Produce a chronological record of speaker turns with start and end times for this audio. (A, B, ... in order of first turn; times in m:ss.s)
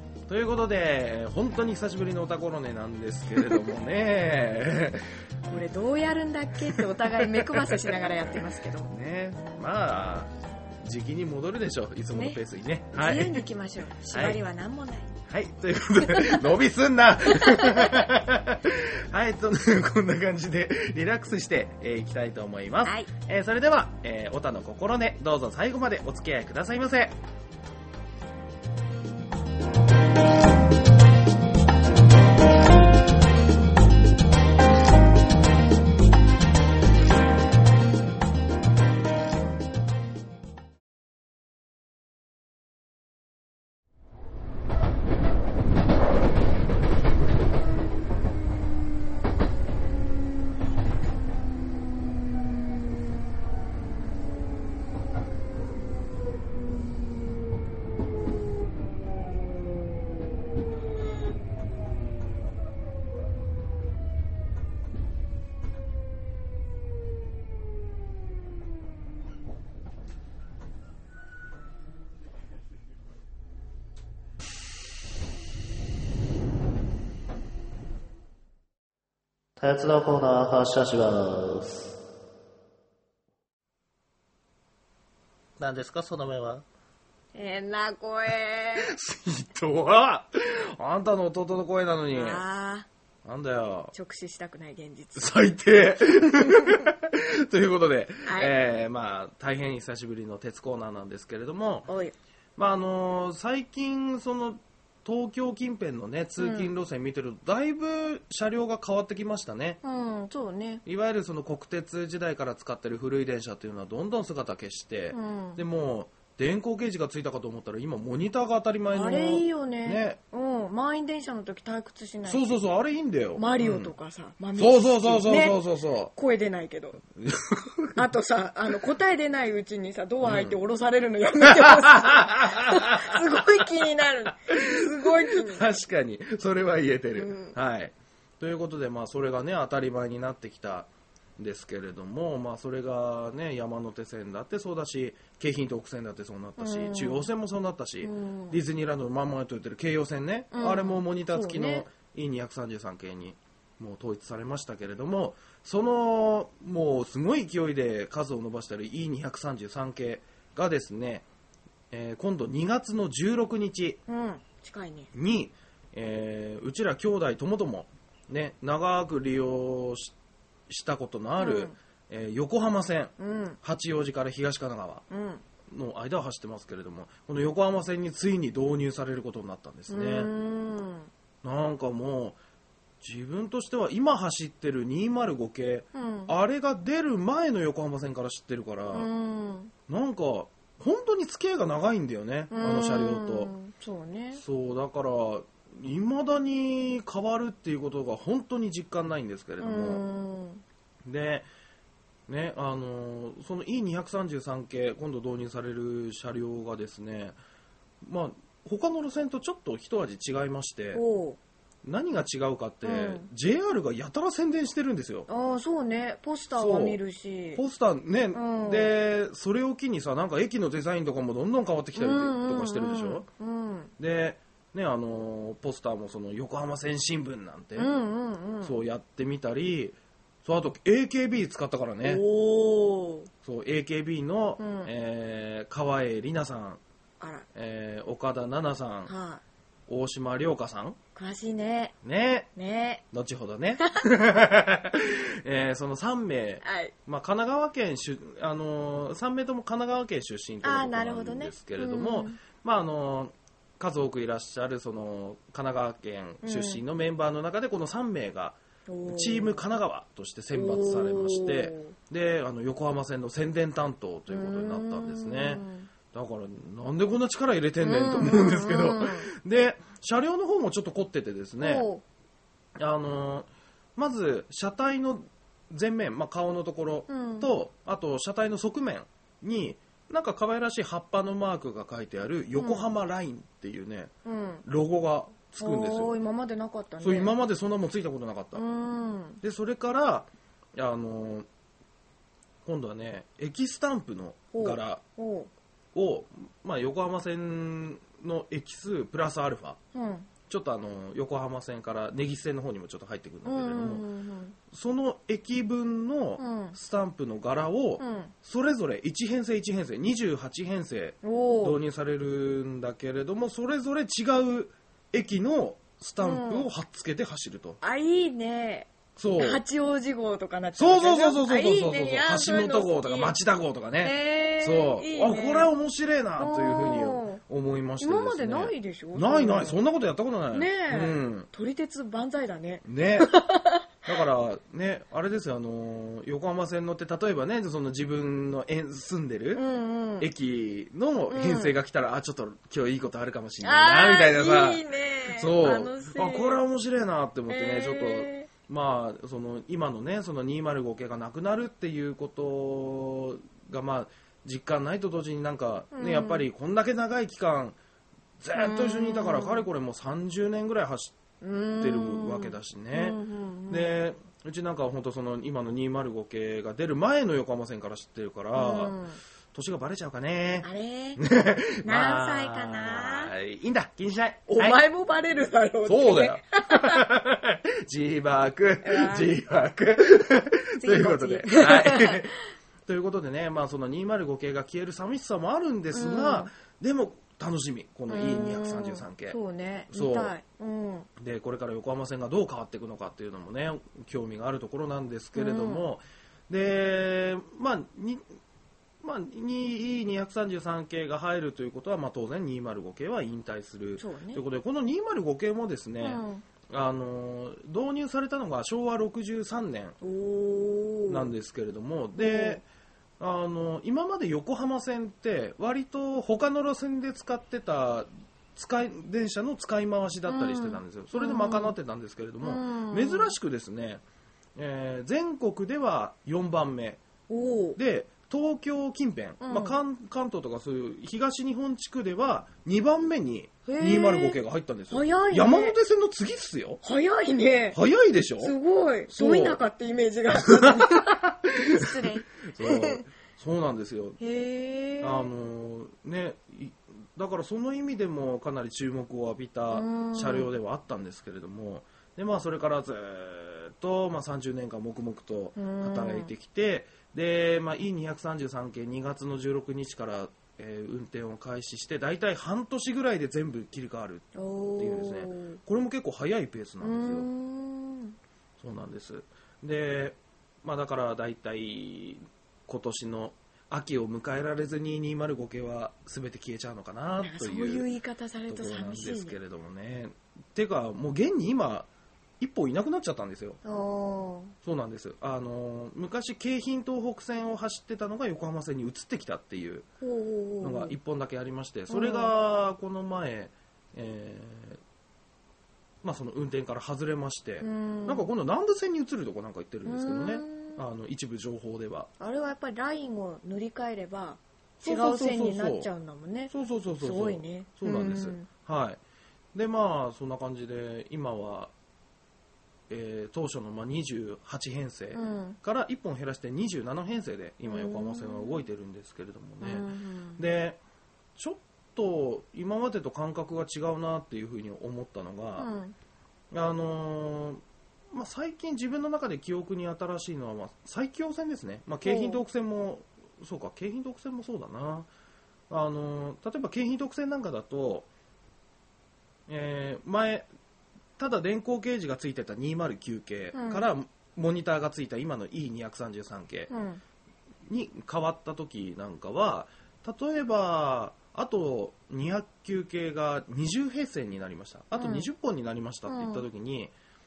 0:00.3-0:05.1 A
0:03.4-0:03.6 B
0:05.5-0:08.9 B
0:06.7-0:13.4 A
0:12.1-0:12.4 B
0:12.9-0:15.2 B
0:14.1-0:14.4 A
0:15.3-0:27.2 A
0:16.1-0:16.4 B
0:17.3-0:18.1 B
0:22.8-0:23.1 B
1:19.6-1:21.9 C
1:25.6-1:26.6 C
1:27.4-1:28.9 B
1:28.8-1:32.4 A
1:32.1-1:32.9 B
1:33.2-1:33.9 A
1:33.9-1:35.3 B
1:35.2-1:41.9 A
1:36.5-1:36.8 B
1:38.2-1:38.5 B
1:41.9-1:42.2 B
1:42.6-1:49.8 A
1:46.4-1:46.7 B
1:49.8-1:50.8 B
1:50.9-2:00.2 A
1:55.1-1:55.6 B
1:58.9-2:02.5 B
2:02.2-2:03.9 A
2:03.4-2:07.0 B
2:04.6-2:06.1 A
2:07.2-2:08.0 A
2:08.0-2:15.6 B
2:10.2-2:10.6 A
2:11.4-2:13.7 A
2:14.5-2:41.3 A
2:17.2-2:17.6 B
2:26.6-2:27.3 B
2:28.0-2:28.6 B
2:30.5-2:31.9 B
2:41.9-2:44.0 A
2:44.1-2:45.1 B
2:45.1-2:50.2 A
2:50.7-2:55.0 A
2:51.4-2:51.8 B
2:53.2-2:53.6 B
2:55.1-2:55.4 B
2:55.7-3:00.3 A
2:59.9-3:01.1 B
3:01.4-3:02.4 A
3:03.0-3:09.1 A
3:05.9-3:06.4 B
3:08.9-3:09.7 B
3:09.9-3:13.5 A
3:12.5-3:14.4 B
3:14.4-3:20.0 A
3:19.6-3:20.6 B
3:21.0-3:21.5 A
3:22.3-3:27.4 A
3:28.0-3:31.0 A
3:30.9-3:31.4 B
3:31.8-3:35.3 A
3:32.8-3:33.3 B
3:35.3-3:37.6 B
3:36.6-3:37.0 A
3:37.6-3:43.3 A
3:38.3-3:38.9 B
3:42.0-3:43.9 B
3:44.0-3:47.9 A
3:47.8-3:48.8 B
3:48.6-3:52.2 A
3:52.0-3:53.3 B
3:53.4-3:56.8 A
3:54.6-3:54.9 B
3:57.2-3:57.5 B
3:57.6-3:59.1 A
3:59.1-3:59.4 B
3:59.9-4:01.0 A
4:01.2-4:02.0 B
4:02.0-4:02.5 A
4:02.6-4:03.0 B
4:03.1-4:31.9 A
4:03.8-4:04.1 B
4:06.6-4:06.9 B
4:10.6-4:12.4 B
4:16.4-4:16.8 B
4:18.9-4:19.6 B
4:20.5-4:22.0 B
4:24.3-4:25.9 B
4:27.8-4:29.3 B
4:31.6-4:32.0 B
4:32.8-4:44.1 A
4:37.1-4:37.5 B
4:42.6-4:42.8 B
4:44.2-4:44.6 B
4:44.6-4:46.1 A
4:45.6-4:47.3 B
4:47.0-4:48.6 A
4:48.5-4:49.4 B
4:49.4-4:51.5 A
4:52.6-4:55.0 A
4:54.5-4:55.5 B
4:55.9-4:59.8 A
4:59.9-5:00.3 B
5:00.5-5:04.0 A
5:03.4-5:04.6 B
5:04.7-5:17.8 A
5:06.4-5:06.8 B
5:08.0-5:08.3 B
5:11.2-5:11.8 B
5:16.2-5:16.7 B
5:17.8-5:23.4 B
5:19.2-5:19.6 A
5:20.8-5:31.5 A
5:24.0-5:25.7 B
5:26.4-5:27.4 B
5:28.0-5:29.8 B
5:30.5-5:33.9 B
5:32.8-5:33.3 A
5:34.1-5:39.6 A
5:39.5-5:40.3 B
5:40.2-5:57.8 A
5:41.3-5:41.8 B
5:43.6-5:46.6 B
5:47.5-5:48.5 B
5:55.9-5:56.5 B
5:58.4-6:01.2 A
5:58.6-5:59.7 B
6:01.4-6:03.9 B
6:01.8-6:09.0 A
6:08.6-6:09.2 B
6:09.5-6:14.8 A
6:10.6-6:11.2 B
6:11.8-6:13.3 B
6:14.5-6:17.0 B
6:15.9-6:22.4 A
6:18.8-6:19.3 B
6:20.8-6:22.3 B
6:22.9-6:29.4 A
6:25.9-6:26.5 B
6:28.1-6:31.1 B
6:29.9-6:30.4 A
6:31.2-6:38.2 A
6:35.4-6:35.8 B
6:39.0-6:50.0 A
6:44.0-6:44.4 B
6:46.0-6:46.4 B
6:50.0-6:51.3 B
6:51.1-6:52.6 A
6:52.2-6:52.6 B
6:53.2-7:04.0 A
7:00.3-7:01.8 B
7:02.4-7:03.4 B
7:04.6-7:07.0 A
7:07.3-7:07.8 B
7:07.8-7:16.8 A
7:09.4-7:09.8 B
7:13.7-7:14.4 B
7:14.9-7:15.8 B
7:16.8-7:17.8 B
7:17.7-7:18.5 A
7:18.4-7:23.0 B
7:19.1-7:19.6 A
7:20.4-7:24.2 A
7:24.2-7:25.3 B
7:25.0-7:47.3 A
7:29.7-7:30.5 B
7:35.6-7:36.3 B
7:44.4-7:45.6 B
7:46.8-7:48.2 B
7:48.6-7:57.9 A
7:57.2-7:59.4 B
7:58.5-8:01.9 A
8:02.4-8:03.6 A
8:03.6-8:04.6 B
8:04.6-8:09.9 A
8:10.0-8:10.9 B
8:10.6-8:14.8 A
8:11.9-8:12.3 B
8:16.0-8:22.1 A
8:17.6-8:18.3 B
8:19.9-8:20.8 B
8:22.2-8:28.5 B
8:24.8-8:25.9 A
8:26.5-8:29.0 A
8:29.5-8:31.7 A
8:32.9-8:40.8 A
8:35.1-8:35.6 B
8:37.6-8:38.6 B
8:39.6-8:40.4 B
8:41.4-8:45.7 A
8:45.6-8:46.0 B
8:46.5-8:55.1 A
8:52.0-8:52.4 B
8:55.7-8:58.1 A
8:59.5-9:00.5 A
9:01.2-9:06.7 A
9:03.5-9:03.9 B
9:06.7-9:07.0 B
9:07.7-9:16.9 A
9:14.9-9:15.3 B
9:16.1-9:16.4 B